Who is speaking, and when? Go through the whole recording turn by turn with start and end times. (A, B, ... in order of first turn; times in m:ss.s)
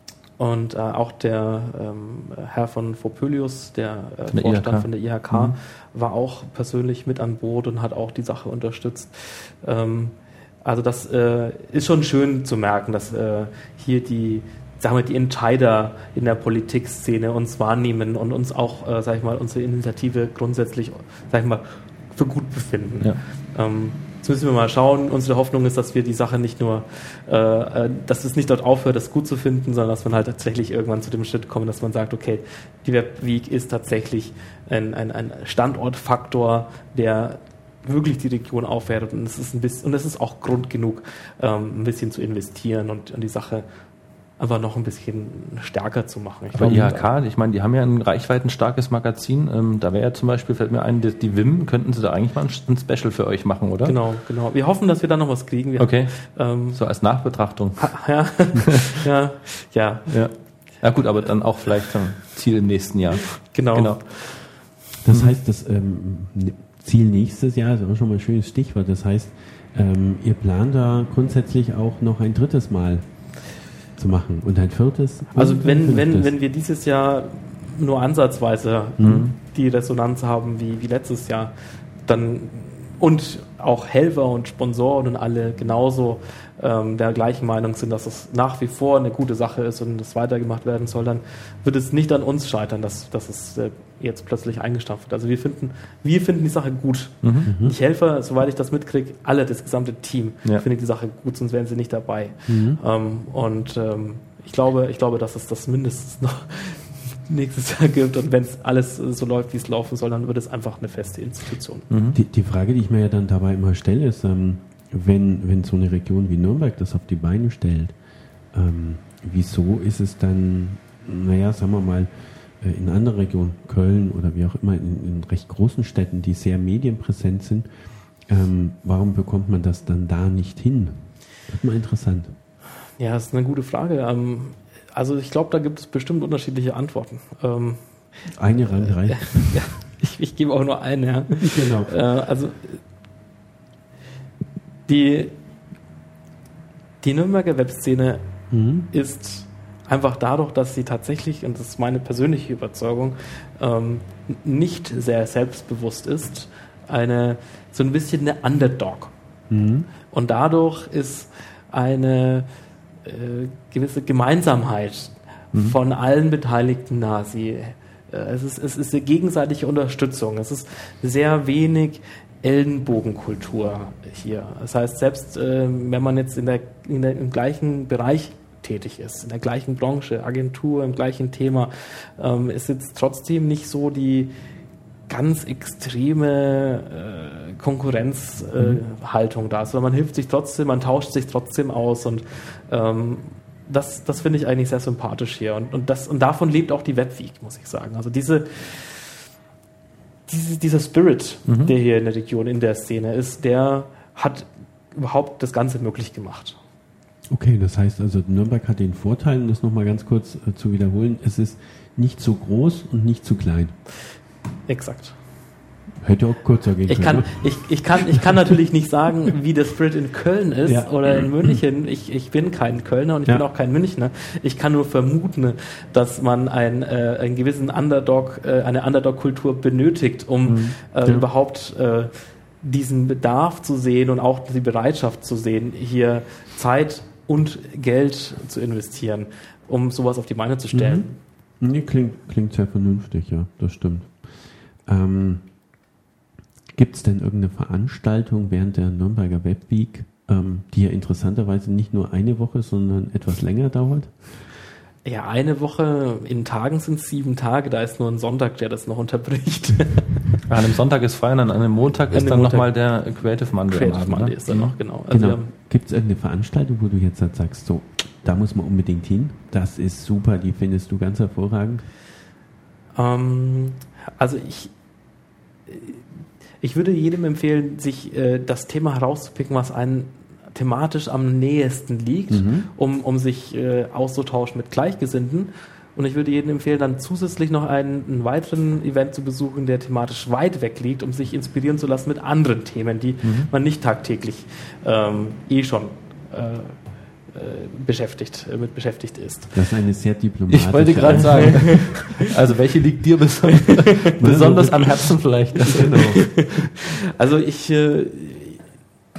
0:00.4-0:43.6 A
0:04.3-0:04.9 B
0:44.4-0:47.1 A
0:46.6-0:46.9 C
0:46.6-0:54.0 B
0:53.8-0:56.8 A
0:55.8-0:58.0 B
0:57.8-1:00.1 A
1:00.1-1:04.5 B
1:03.4-1:04.0 A
1:05.0-1:13.1 C
1:05.1-1:05.4 B
1:14.0-1:16.3 C
1:15.4-1:21.5 A
1:19.0-1:19.3 C
1:19.0-1:19.3 B
1:22.0-1:51.9 A
1:37.2-1:37.5 B
1:37.5-1:37.8 C
1:42.5-1:42.8 C
1:51.9-1:52.2 B
1:52.1-1:58.0 C
1:58.5-2:07.7 C
2:08.3-2:12.4 C
2:13.0-2:22.8 A
2:18.3-2:19.6 C
2:21.4-2:21.9 C
2:24.9-2:25.4 A
2:27.0-2:28.2 A
2:28.5-2:28.9 C
2:28.9-2:39.1 A
2:39.5-2:39.9 C
2:40.1-2:42.5 A
2:43.0-3:04.3 A
3:05.1-3:19.3 A
3:20.3-3:26.6 A
3:21.5-3:21.7 B
3:27.3-3:33.8 C
3:34.7-3:35.2 A
3:36.0-3:38.5 C
3:36.9-4:01.2 A
3:40.6-3:41.6 C
3:50.4-3:51.3 C
4:00.7-4:01.1 C
4:01.6-4:05.4 C
4:06.7-4:14.2 C
4:15.0-4:20.4 A
4:20.5-4:24.8 B
4:22.1-4:22.8 A
4:23.7-4:25.5 A
4:25.1-4:31.9 C
4:33.0-4:34.7 A
4:35.7-4:36.0 A
4:36.6-4:59.6 A
4:42.3-4:42.7 C
4:53.2-4:53.5 B
4:59.5-5:01.8 C
5:00.5-5:06.5 B
5:04.2-5:04.9 C
5:05.6-5:06.2 C
5:07.2-5:08.6 A